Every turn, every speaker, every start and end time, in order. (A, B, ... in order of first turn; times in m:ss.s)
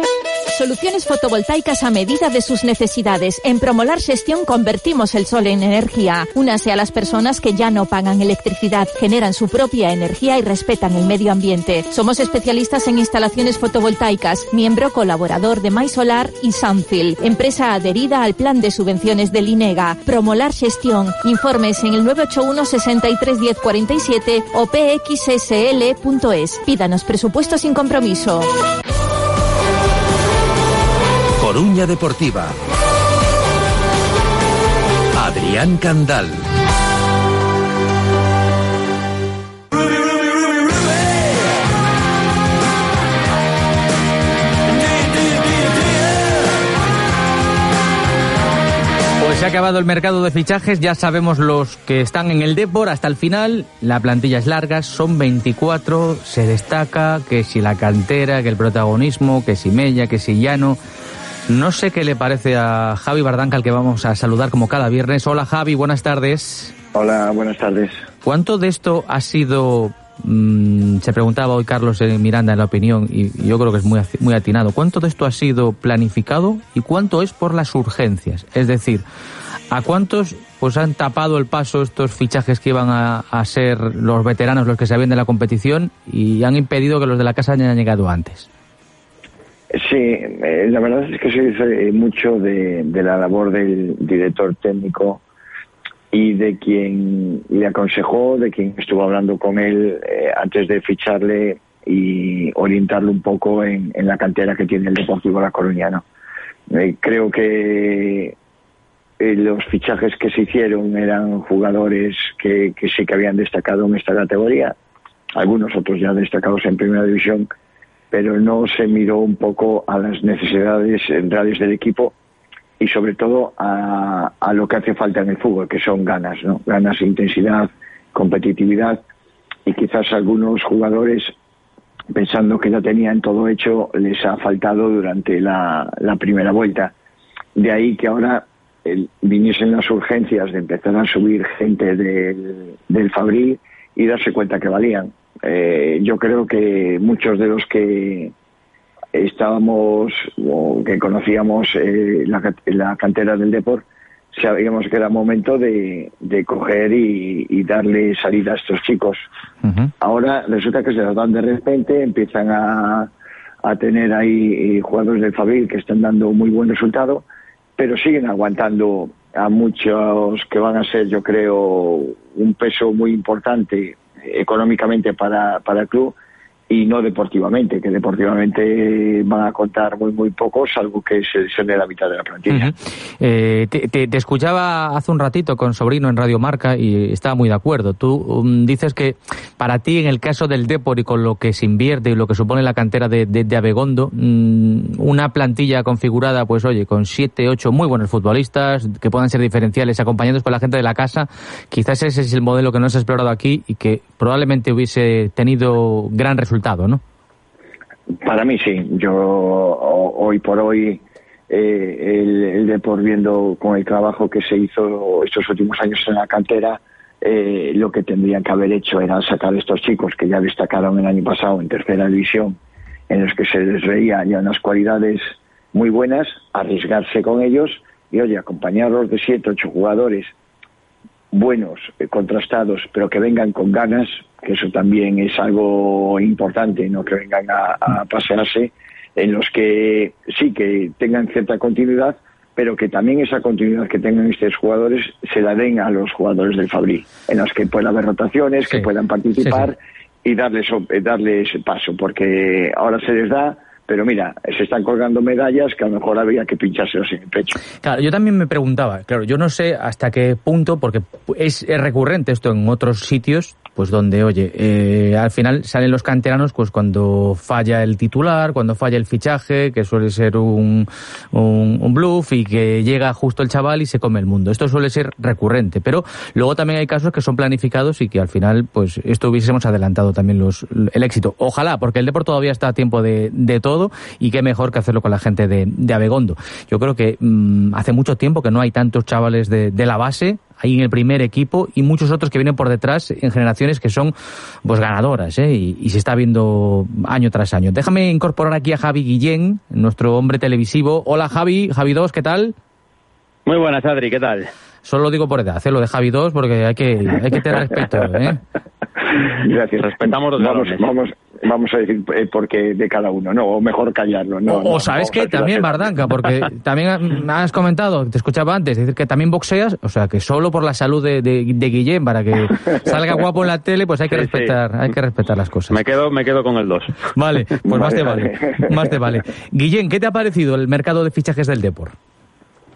0:00.5-0:28.5 A
0:31.4-0:32.3 B
0:35.2-0:36.3 B
0:49.2-1:00.8 C
1:01.5-1:06.7 C
1:06.9-1:08.0 D
1:08.2-1:19.0 C
1:19.7-1:28.5 C
1:29.7-1:35.2 D
1:36.1-1:46.0 D
1:46.7-1:48.4 D
1:49.2-1:54.8 D
1:55.4-1:57.5 D
1:58.1-2:02.1 D
2:02.8-2:09.0 D
2:09.6-2:11.3 D
2:12.1-2:16.9 D
2:17.6-2:28.3 D
2:29.1-2:39.2 D
2:39.6-2:39.9 C
2:40.0-2:43.1 D
2:43.6-2:47.2 D
2:47.8-2:56.1 D
2:56.7-3:02.7 D
3:02.5-3:27.0 C
3:28.2-3:42.6 D
3:43.1-3:50.3 D
3:51.3-4:17.5 D
4:08.7-4:09.7 C
4:17.8-4:54.1 C
4:54.6-5:02.6 C
5:03.5-5:04.5 E
5:04.8-5:08.4 C
5:09.1-5:15.9 D
5:09.8-5:10.9 E
5:14.5-5:25.8 C
5:24.1-5:24.6 E
5:25.7-5:27.0 E
5:27.1-5:32.0 C
5:27.7-5:28.8 D